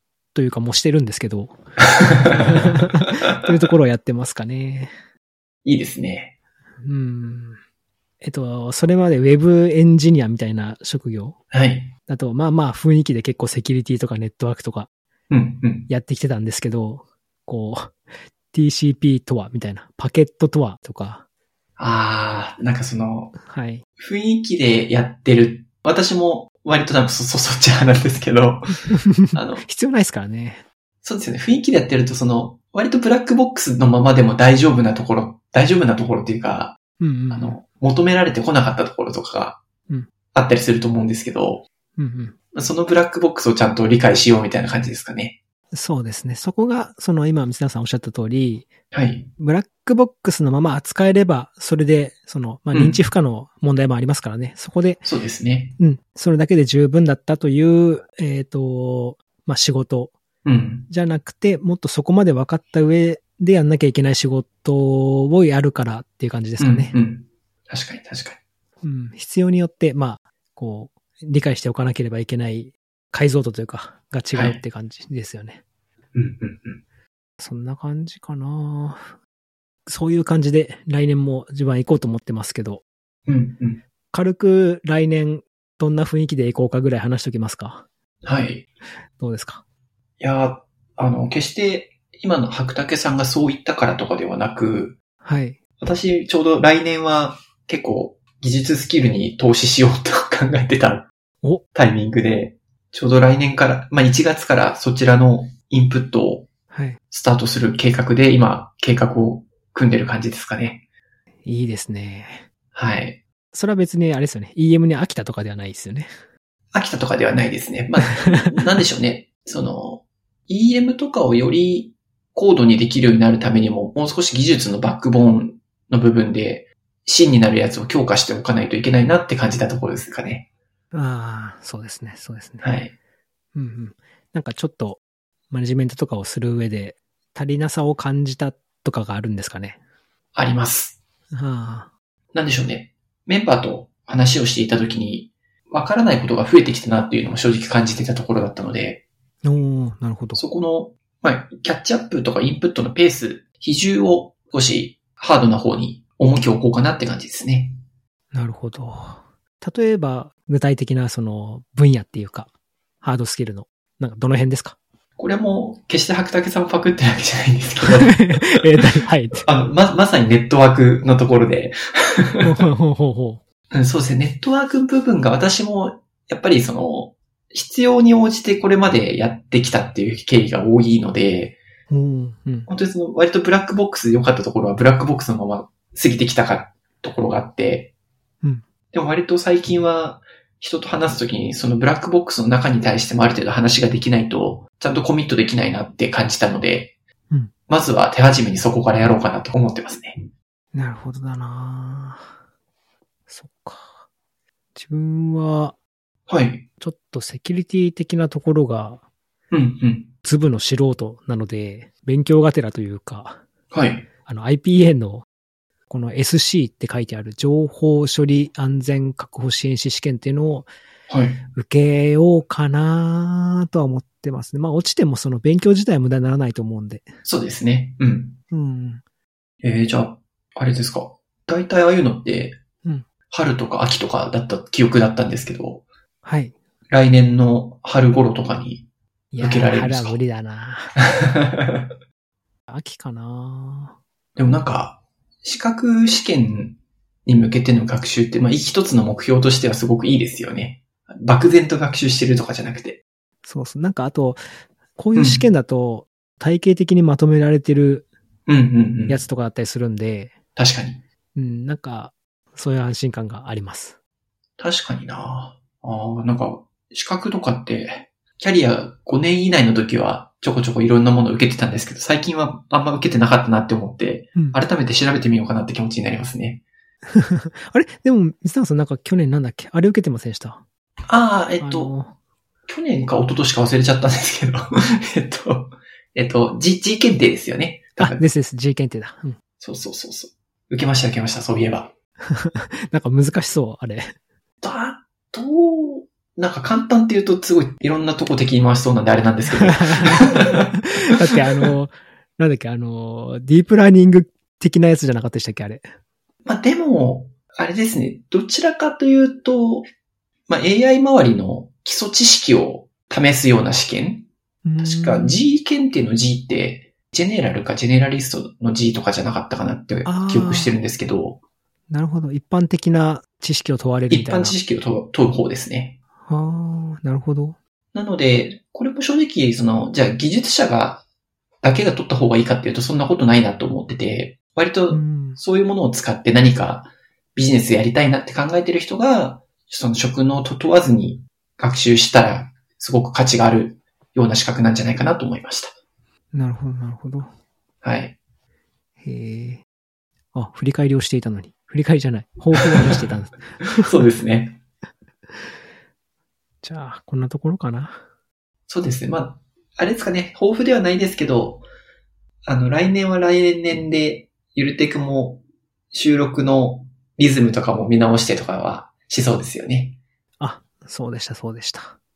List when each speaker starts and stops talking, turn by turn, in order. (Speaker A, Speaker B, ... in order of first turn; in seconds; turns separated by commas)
Speaker A: 0.3-4.9, Speaker B: 2.3-2.6, Speaker B: 5.6-6.3, Speaker A: 6.8-7.6, Speaker A: 8.2-11.4, Speaker B: 11.5-11.9, Speaker A: 12.1-14.9, Speaker B: 15.3-15.9, Speaker A: 15.9-17.9, Speaker A: 18.5-21.2, Speaker B: 21.8-23.3, Speaker A: 23.4-23.8, Speaker B: 24.0-28.8, Speaker A: 29.1-30.6, Speaker B: 29.3-29.6, Speaker B: 31.0-36.8, Speaker A: 37.0-37.6, Speaker B: 37.3-39.6, Speaker B: 40.3-41.7, Speaker A: 42.0-42.4, Speaker B: 42.5-45.4, Speaker A: 45.7-48.7, Speaker B: 48.9-49.3, Speaker A: 49.4-55.1, Speaker B: 52.7-53.0, Speaker B: 55.0-55.8, Speaker A: 55.8-60.2, Speaker B: 60.4-60.9, Speaker A: 60.9-66.9, Speaker B: 66.6-68.4, Speaker A: 68.8-75.6, Speaker B: 74.3-74.6, Speaker B: 76.1-76.8, Speaker A: 77.4-79.1, Speaker A: 79.8-82.8, Speaker B: 83.3-83.8, Speaker A: 84.1-87.8, Speaker B: 88.2-88.7, Speaker A: 89.2-89.6, Speaker B: 90.2-95.0, Speaker A: 95.2-95.6, Speaker B: 95.8-101.1, Speaker B: 101.7-106.5, Speaker A: 106.7-107.0, Speaker B: 107.1-110.8, Speaker A: 111.5-112.4, Speaker B: 112.7-113.2, Speaker A: 113.5-116.1, Speaker B: 116.7-130.5, Speaker A: 130.9-132.8, Speaker B: 132.6-132.9, Speaker A: 133.5-139.8, Speaker B: 140.3-141.0, Speaker A: 141.3-141.9, Speaker B: 142.3-149.0, Speaker A: 149.4-150.4, Speaker B: 150.3-157.8, Speaker A: 158.3-164.8, Speaker B: 165.2-168.6, Speaker A: 168.1-169.5, Speaker B: 169.4-172.6, Speaker A: 172.4-173.4, Speaker B: 173.7-181.6, Speaker A: 181.9-182.7, Speaker B: 182.7-187.9, Speaker B: 188.9-196.9, Speaker B: 197.7-200.3, Speaker A: 200.7-202.3, Speaker A: 203.3-204.0, Speaker A: 204.7-205.8, Speaker B: 206.3-206.7, Speaker A: 206.8-209.0, Speaker B: 209.5-210.1, Speaker A: 210.2-213.4, Speaker B: 213.7-214.1, Speaker A: 214.2-215.2, Speaker A: 215.9-220.7, Speaker B: 221.1-221.4, Speaker A: 221.5-227.1, Speaker B: 227.2-228.4, Speaker A: 228.5-229.0, Speaker B: 229.6-232.6, Speaker B: 233.3-235.8, Speaker A: 236.2-236.6, Speaker B: 236.9-238.9, Speaker A: 239.3-241.0, Speaker B: 239.4-240.2, Speaker B: 241.0-241.8, Speaker A: 242.7-243.9, Speaker B: 244.3-253.0, Speaker A: 253.4-254.4, Speaker A: 255.0-258.1, Speaker B: 255.1-255.5, Speaker B: 258.5-259.2, Speaker A: 259.1-260.4, Speaker B: 260.6-261.0, Speaker A: 261.3-263.9, Speaker B: 264.6-276.6, Speaker A: 274.4-274.6, Speaker A: 277.1-280.6, Speaker B: 281.1-281.9, Speaker A: 281.6-282.1, Speaker B: 282.7-288.2, Speaker A: 288.0-289.4, Speaker B: 289.6-291.9, Speaker A: 292.3-294.1, Speaker B: 294.6-300.8, Speaker A: 299.6-305.8, Speaker B: 301.3-301.7, Speaker B: 306.4-309.9, Speaker B: 310.5-314.3, Speaker A: 314.6-315.4, Speaker B: 314.8-321.4, Speaker A: 320.0-320.8, Speaker A: 321.9-324.6, Speaker B: 324.1-326.0, Speaker A: 326.3-327.6, Speaker B: 327.9-331.0, Speaker B: 331.6-345.7, Speaker A: 334.9-335.4, Speaker A: 346.3-347.3, Speaker B: 347.8-348.2, Speaker A: 349.0-349.6, Speaker A: 350.3-354.0, Speaker B: 352.5-353.0, Speaker B: 353.7-354.6, Speaker A: 356.6-358.0, Speaker B: 358.7-361.6, Speaker B: 362.4-370.0, Speaker A: 370.4-372.0